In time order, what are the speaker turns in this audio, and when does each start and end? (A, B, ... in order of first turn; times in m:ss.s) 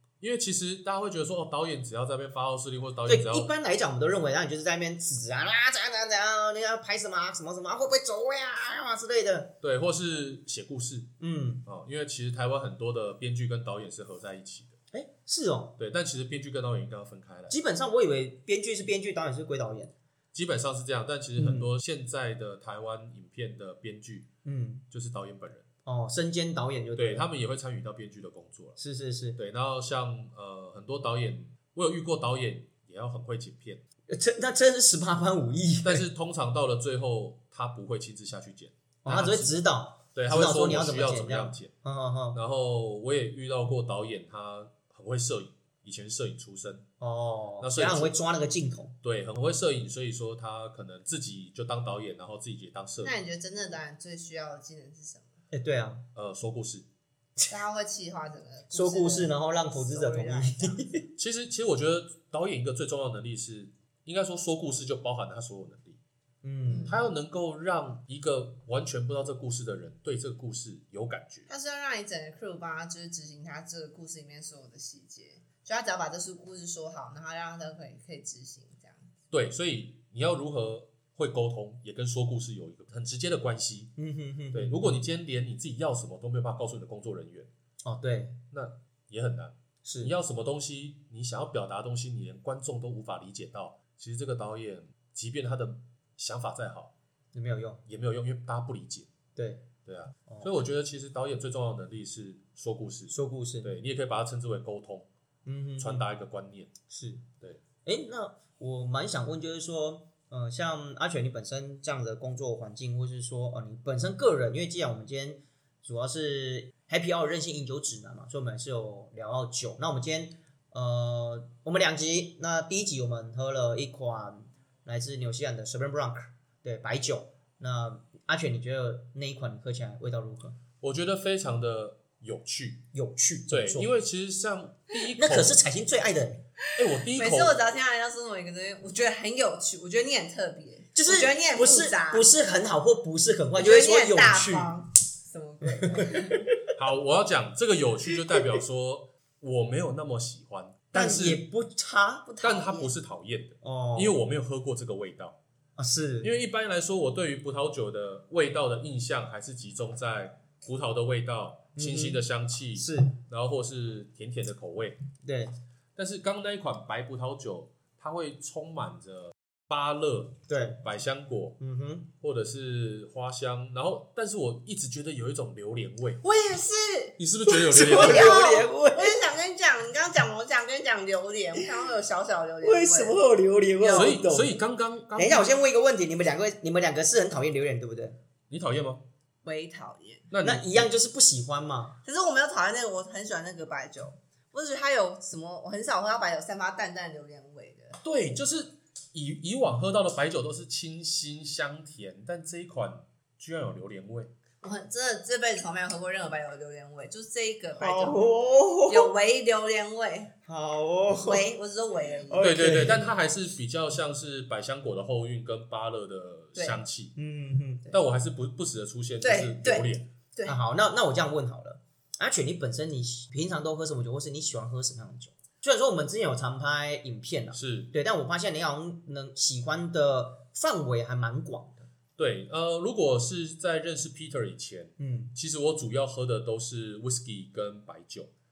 0:00.2-0:03.5 A
0:03.1-0:09.6 B
0:09.6-0:11.1 A
0:11.2-0:11.6 B
0:11.7-0:14.8 A
0:14.9-0:15.8 B
0:15.8-0:17.6 A
0:17.5-0:19.9 B
0:20.3-0:24.3 A
0:21.4-0:21.7 B
0:24.4-0:24.8 B
0:24.9-0:25.7 A
0:25.9-0:27.3 B
0:27.0-0:28.8 A
0:28.8-0:29.4 B
0:29.4-0:33.8 A
0:34.1-0:36.1 B
0:35.8-0:39.6 A
0:39.0-0:42.4 B
0:40.1-0:41.7 A
0:42.3-0:46.8 A
0:47.0-0:49.0 B
0:47.6-0:48.2 A
0:49.0-0:53.2 A
0:53.0-0:55.4 C
0:55.5-0:56.0 B
0:56.2-0:56.9 A
0:57.5-1:00.9 C
0:58.7-1:01.1 B
1:01.2-1:06.0 A
1:06.4-1:07.0 B
1:06.6-1:07.1 C
1:06.9-1:11.5 A
1:11.5-1:19.1 C
1:19.3-1:23.9 A
1:24.0-1:25.0 B
1:24.5-1:27.5 A
1:27.8-1:28.4 B
1:28.5-1:36.9 A
1:29.8-1:30.2 B
1:37.3-1:37.8 B
1:37.9-1:39.1 A
1:39.4-1:39.7 B
1:39.8-1:45.1 A
1:40.3-1:40.5 B
1:43.1-1:43.7 B
1:45.5-1:46.0 B
1:45.8-1:46.7 A
1:46.9-1:47.3 B
1:47.8-2:10.6 B
2:10.8-2:12.8 A
2:12.9-2:13.9 B
2:13.5-2:15.6 A
2:15.2-2:16.4 B
2:16.8-2:17.6 A
2:17.1-2:22.3 C
2:21.0-2:24.7 B
2:23.6-2:26.5 C
2:25.8-2:26.7 B
2:26.8-2:31.4 A
2:28.1-2:28.6 B
2:30.9-2:32.3 B
2:32.3-2:32.9 C
2:32.4-2:35.4 A
2:33.6-2:34.2 B
2:35.8-2:36.3 B
2:36.2-2:45.0 A
2:41.8-2:42.2 B
2:42.8-2:43.2 B
2:45.2-2:45.5 B
2:46.0-2:51.6 A
2:50.5-2:50.8 B
2:51.6-2:52.1 B
2:52.2-2:56.2 A
2:56.2-2:57.2 C
2:57.2-2:58.4 A
2:57.5-2:59.2 B
2:57.7-3:03.2 C
3:02.6-3:04.6 B
3:03.8-3:04.1 C
3:03.9-3:05.6 A
3:05.2-3:08.2 B
3:08.5-3:09.0 A
3:09.4-3:10.2 C
3:10.3-3:10.9 A
3:10.4-3:12.0 B
3:12.0-3:18.0 C
3:18.0-3:24.3 A
3:24.6-3:28.2 C
3:27.8-3:29.1 B
3:28.9-3:30.3 C
3:30.4-3:31.5 B
3:31.2-3:32.6 C
3:32.3-3:33.1 B
3:32.4-3:37.2 A
3:36.6-3:36.8 C
3:37.2-3:38.0 B
3:37.9-3:40.1 A
3:39.2-3:40.6 C
3:40.5-3:51.9 B
3:47.5-3:47.9 A
3:52.2-3:58.3 A
3:55.0-3:55.4 B